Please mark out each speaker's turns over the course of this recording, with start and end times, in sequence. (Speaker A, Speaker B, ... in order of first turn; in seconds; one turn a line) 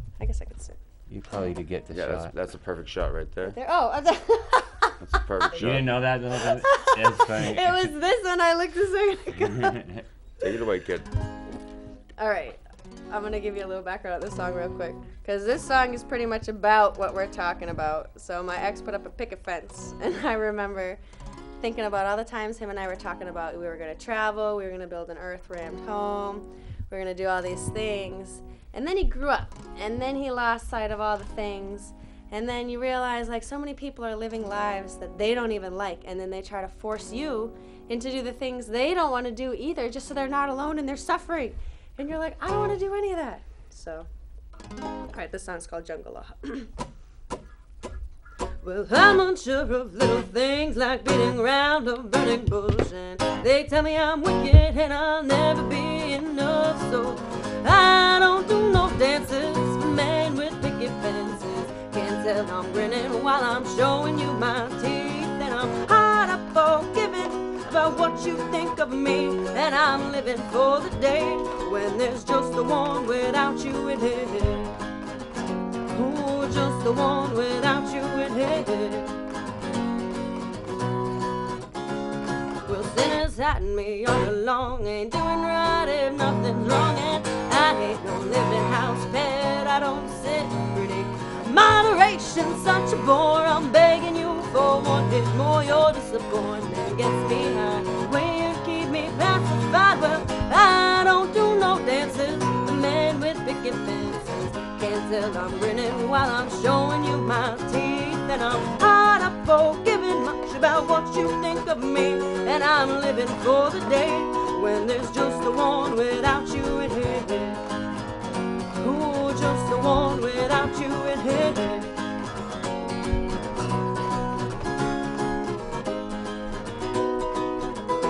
Speaker A: 0.2-0.8
Speaker B: 1.1-2.3
Speaker C: 1.9-3.5
Speaker A: 3.4-5.0
Speaker C: 5.0-5.9
Speaker B: 5.5-7.9
Speaker A: 6.3-9.8
Speaker B: 9.4-10.0
Speaker C: 10.4-11.1
Speaker A: 12.2-21.0
Speaker A: 21.6-44.1
Speaker A: 45.1-46.7
Speaker A: 48.6-74.7
Speaker A: 75.9-79.1
Speaker A: 82.7-117.6
Speaker A: 118.8-121.9